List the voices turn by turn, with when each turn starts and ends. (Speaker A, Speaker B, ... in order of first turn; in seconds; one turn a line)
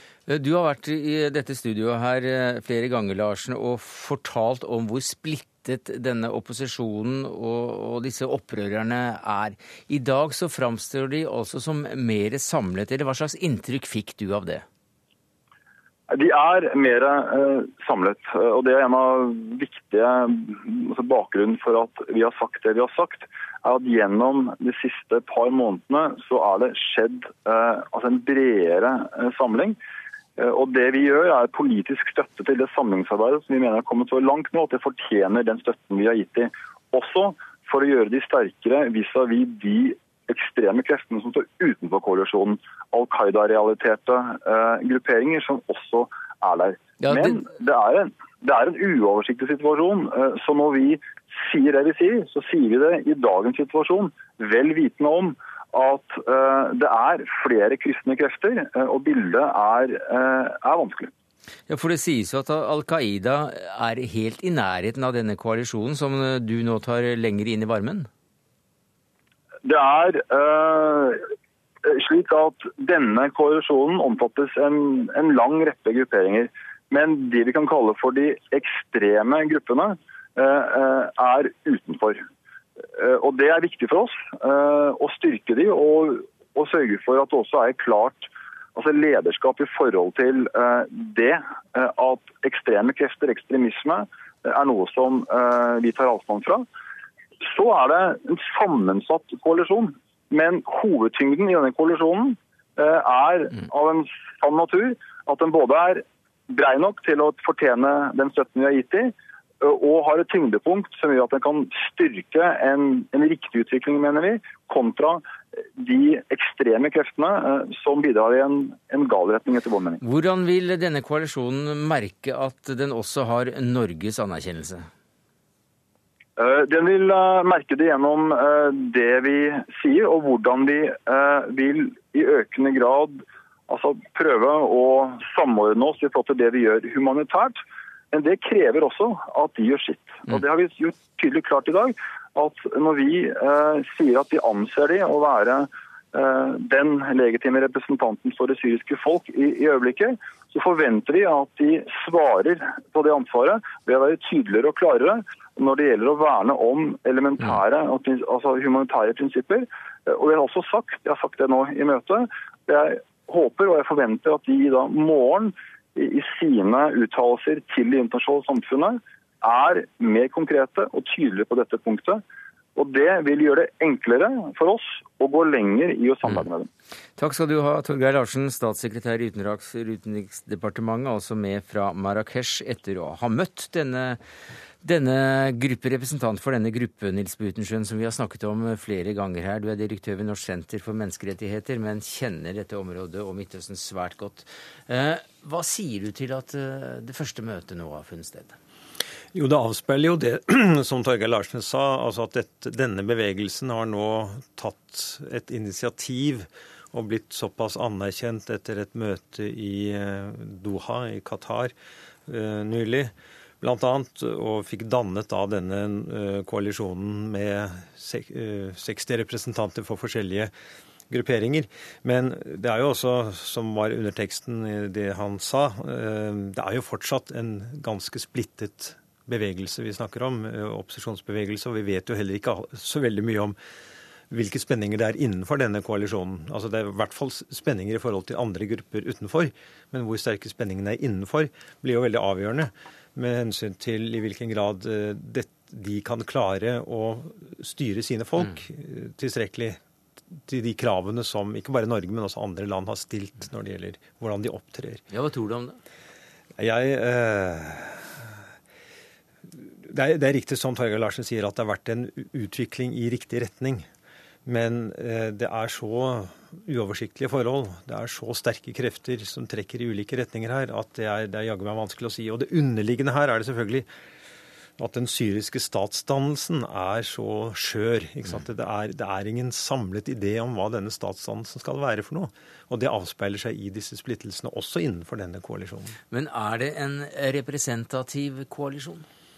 Speaker A: 0.3-14.7
Speaker B: 16.1-29.8
Speaker B: 30.4-61.1
Speaker A: 47.0-47.4
Speaker A: 61.7-68.1
Speaker B: 69.7-71.3
Speaker B: 71.8-82.2
Speaker B: 83.0-96.7
Speaker B: 97.4-115.2
Speaker B: 115.8-120.0
Speaker A: 120.0-124.9
Speaker B: 126.4-137.6
Speaker B: 138.1-172.2
Speaker B: 172.8-176.7
Speaker A: 177.2-184.2
Speaker A: 184.8-198.6
Speaker C: 199.3-211.7
Speaker C: 212.3-220.5
Speaker C: 221.1-233.6
Speaker C: 234.3-249.8
Speaker C: 250.3-255.0
Speaker A: 255.1-255.8
Speaker C: 256.6-258.1
Speaker C: 259.9-263.9
Speaker C: 264.5-273.9
Speaker C: 274.8-285.9
Speaker A: 286.1-289.1